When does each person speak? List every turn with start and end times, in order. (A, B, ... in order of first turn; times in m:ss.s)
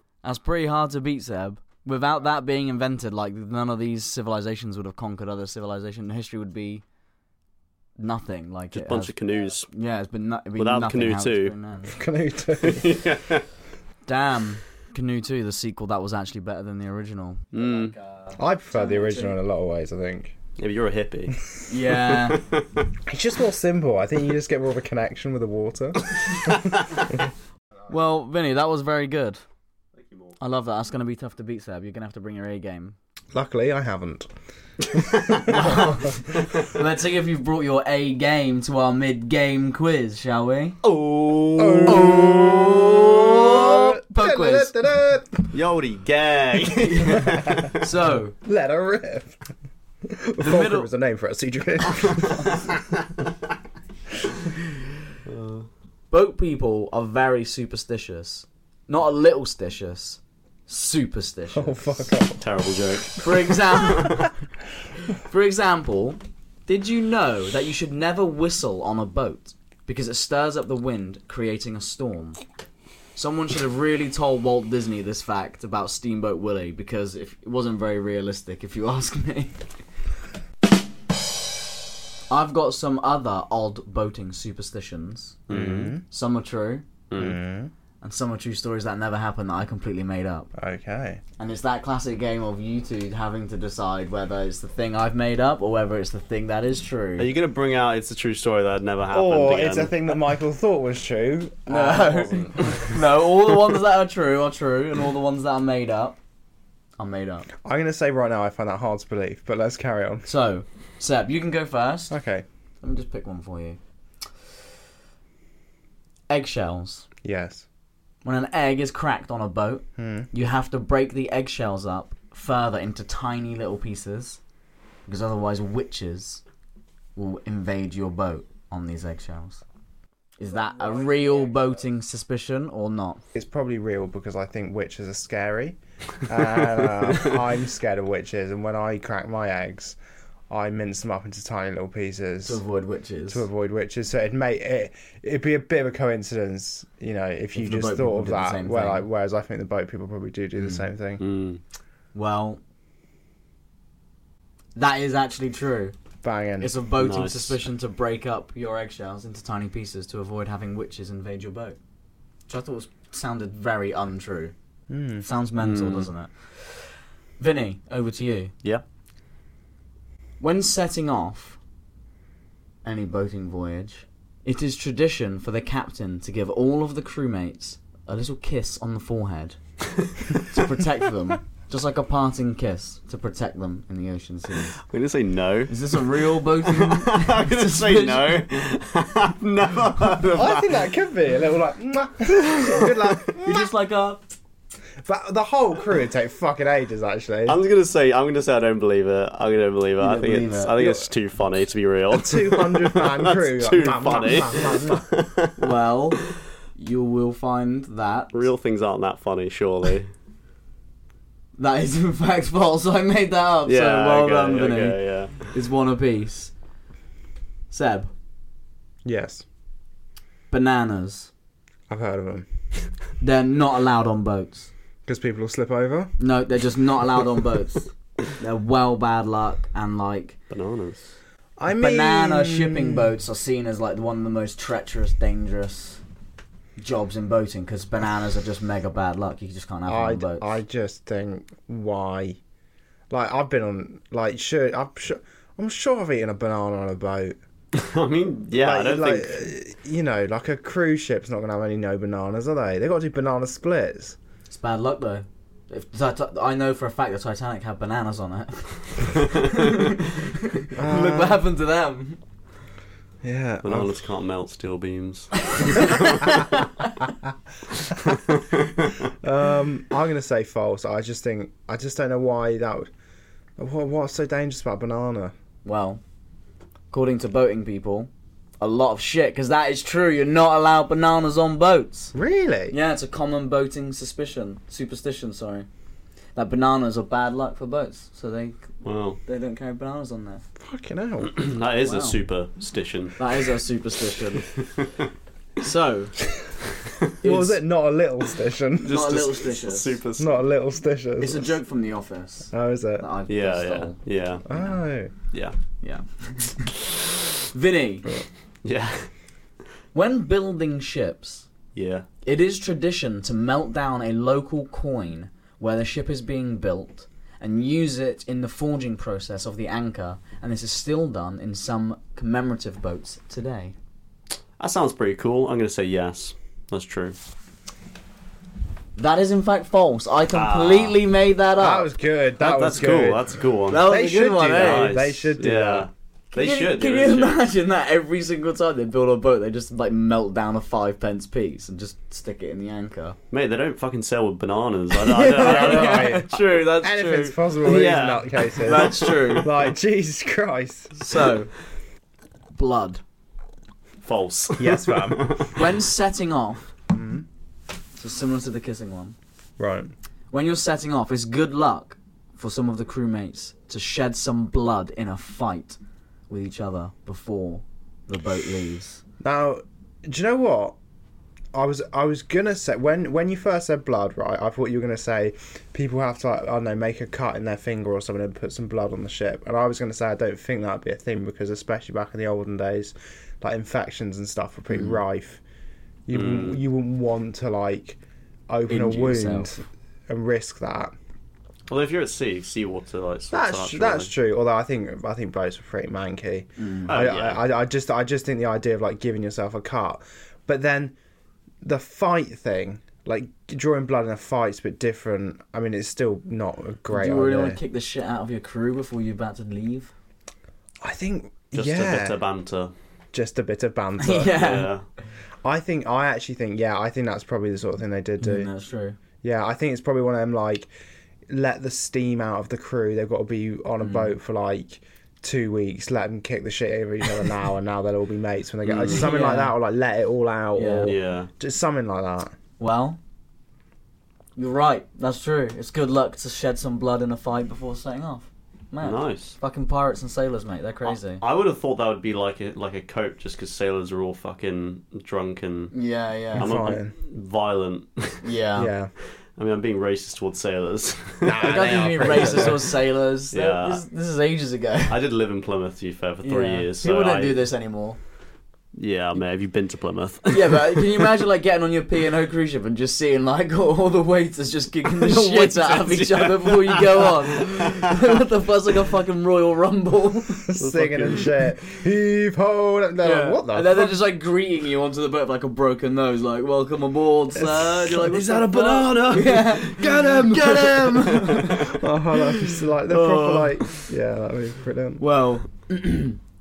0:00.2-0:06.8 A
0:08.0-0:09.1 A
0:08.7-0:09.7 B
0:09.7-0:12.0 A
0:10.6-0:11.6 B
0:11.9-0:12.9 C
0:12.6-0:13.4 B
0:14.1-0:19.3 A
0:17.5-0:18.0 B
0:18.4-0:20.4 C
0:20.6-0:21.4 B
0:21.7-0:22.4 A
0:22.1-0:22.9 B
0:23.1-0:26.7 C
0:27.9-0:29.4 A
0:30.0-0:30.4 B
0:30.4-0:33.0 A
0:33.3-0:34.3 C
0:34.9-0:35.8 C
0:35.5-0:40.8 A
0:40.8-0:43.4 B
0:41.6-0:45.5 C
0:41.9-0:44.7 A
0:45.5-0:47.8 B
0:46.8-0:48.4 A
0:48.4-0:49.4 C
0:50.1-0:52.5 C
0:50.4-0:50.9 A
0:55.3-0:55.7 B
0:56.1-1:02.1 A
1:01.5-1:02.4 C
1:02.4-1:04.3 B
1:03.2-1:04.3 A
1:05.2-1:12.4 A
1:13.2-1:19.6 A
1:22.3-1:25.4 A
1:25.5-1:25.9 B
1:25.5-1:26.0 C
1:26.1-1:26.9 A
1:27.1-1:27.4 B
1:27.2-1:27.7 C
1:28.0-1:30.5 A
1:30.6-1:31.2 C
1:31.4-1:37.3 A
1:37.2-1:40.0 B
1:39.1-1:42.7 C
1:41.7-1:46.2 A
1:42.4-1:42.9 B
1:47.0-1:47.5 A
1:47.6-1:50.3 C
1:50.3-1:52.1 A
1:52.1-1:52.4 C
1:52.8-1:53.8 A
1:56.3-1:57.1 A
1:57.2-1:57.6 C
1:58.2-2:04.4 A
2:00.0-2:00.3 C
2:05.1-2:06.4 A
2:07.2-2:09.6 A
2:10.4-2:13.2 A
2:13.3-2:20.0 C
2:20.5-2:22.6 C
2:22.4-2:23.5 A
2:23.3-2:31.2 C
2:27.6-2:29.1 A
2:30.6-2:30.9 A
2:31.2-2:31.6 B
2:32.1-2:32.6 A
2:34.8-2:35.9 A
2:36.2-2:36.7 C
2:36.6-2:41.8 A
2:37.0-2:37.6 B
2:42.5-2:44.5 A
2:44.9-2:45.3 C
2:45.2-2:48.5 A
2:45.6-2:46.1 B
2:50.4-2:51.6 A
2:52.8-2:59.6 A
3:00.4-3:04.8 A
3:04.8-3:10.8 B
3:05.7-3:08.4 A
3:10.3-3:13.7 C
3:12.6-3:12.9 B
3:13.4-3:14.2 A
3:15.0-3:17.6 C
3:17.5-3:25.6 B
3:20.0-3:20.7 A
3:20.8-3:21.1 C
3:22.1-3:25.1 C
3:25.6-3:26.2 A
3:26.8-3:28.3 A
3:28.3-3:30.1 B
3:31.6-3:36.5 A
3:33.7-3:35.5 B
3:37.7-3:38.1 A
3:39.0-3:39.4 C
3:40.5-3:41.3 A
3:41.9-3:42.5 C
3:43.2-3:44.7 A
3:45.0-3:46.2 C
3:46.2-3:50.4 A
3:50.5-3:51.2 B
3:51.6-3:53.0 C
3:51.7-3:56.0 A
3:56.8-4:00.4 A
3:59.9-4:02.4 C
4:03.1-4:07.4 C
4:07.7-4:09.4 B
4:08.5-4:14.2 C
4:14.5-4:20.0 A
4:20.6-4:22.2 A
4:20.8-4:21.4 C
4:23.2-4:24.0 C
4:23.6-4:26.5 B
4:27.9-4:29.0 B
4:29.2-4:32.9 C
4:33.6-4:35.3 C
4:35.6-4:36.0 A
4:36.9-4:38.1 A
4:38.6-4:42.1 A
4:42.1-4:42.8 C
4:42.7-4:45.7 A
4:46.4-4:48.7 A
4:48.8-4:49.2 B
4:49.3-4:50.4 A
4:50.6-4:51.4 C
4:51.2-4:53.4 B
4:51.8-4:52.2 A
4:53.2-4:54.5 A
4:54.5-4:54.9 B
4:55.6-4:56.2 A
4:57.2-4:57.6 A
4:57.2-4:59.1 C
4:58.8-5:00.0 A
4:58.8-5:00.4 B
5:00.2-5:01.5 C
5:01.2-5:04.0 A
5:02.5-5:03.1 C
5:03.3-5:04.5 B
5:04.5-5:05.1 C
5:04.5-5:04.8 A
5:05.8-5:06.7 A
5:07.5-5:08.2 A
5:08.6-5:09.1 B
5:09.9-5:11.5 A
5:11.8-5:12.1 B
5:12.2-5:23.8 A
5:24.6-5:27.2 B
5:29.0-5:31.9 A
5:30.3-5:31.0 B
5:31.6-5:35.9 C
5:32.4-5:33.9 B
5:33.7-5:35.0 A
5:34.5-5:37.4 B
5:36.3-5:43.2 A
5:43.3-5:46.4 B
5:45.0-5:47.4 A
5:45.2-5:51.0 C
5:47.6-5:49.6 B
5:48.6-5:49.5 A
5:51.0-5:51.5 A
5:52.6-5:53.0 A
5:54.0-5:55.6 B
5:54.6-5:55.4 C
5:55.5-5:56.6 A
5:56.9-5:57.3 C
5:58.0-5:59.2 A
5:59.6-5:59.9 C
6:00.3-6:05.8 A
6:06.3-6:09.0 A
6:09.2-6:10.8 C
6:11.5-6:25.4 C
6:24.7-6:25.0 A
6:26.1-6:31.0 C
6:26.1-6:26.6 B
6:28.7-6:29.6 A
6:31.7-6:34.1 B
6:33.3-6:41.0 C
6:36.6-6:36.9 A
6:36.9-6:37.4 B
6:41.6-6:47.6 C
6:46.9-6:49.9 A
6:50.8-6:52.2 C
6:51.5-6:52.7 B
6:53.1-6:54.4 C
6:54.0-6:54.7 A
6:54.4-6:54.8 B
6:55.4-6:58.5 C
6:58.2-6:59.0 A
6:59.2-7:00.7 C
7:01.3-7:12.3 C
7:03.8-7:04.1 A
7:08.6-7:09.1 B
7:08.9-7:09.6 A
7:10.6-7:10.9 A
7:10.8-7:11.3 B
7:12.6-7:13.0 A
7:14.4-7:21.2 A
7:18.8-7:19.4 B
7:20.8-7:25.8 B
7:25.7-7:26.5 A
7:26.3-7:28.3 B
7:26.4-7:27.0 C
7:28.2-7:28.7 A
7:28.6-7:28.9 C
7:29.4-7:32.8 B
7:31.2-7:32.7 C
7:31.4-7:35.0 A
7:33.3-7:33.8 B
7:34.9-7:37.4 B
7:36.2-7:38.0 A
7:38.8-7:41.1 B
7:40.3-7:50.5 A
7:44.9-7:47.7 B
7:50.5-7:53.9 C
7:50.6-7:51.3 B
7:53.0-8:01.7 A
7:57.4-8:05.0 C
7:58.7-8:01.7 B
8:02.9-8:03.9 B
8:05.0-8:06.2 A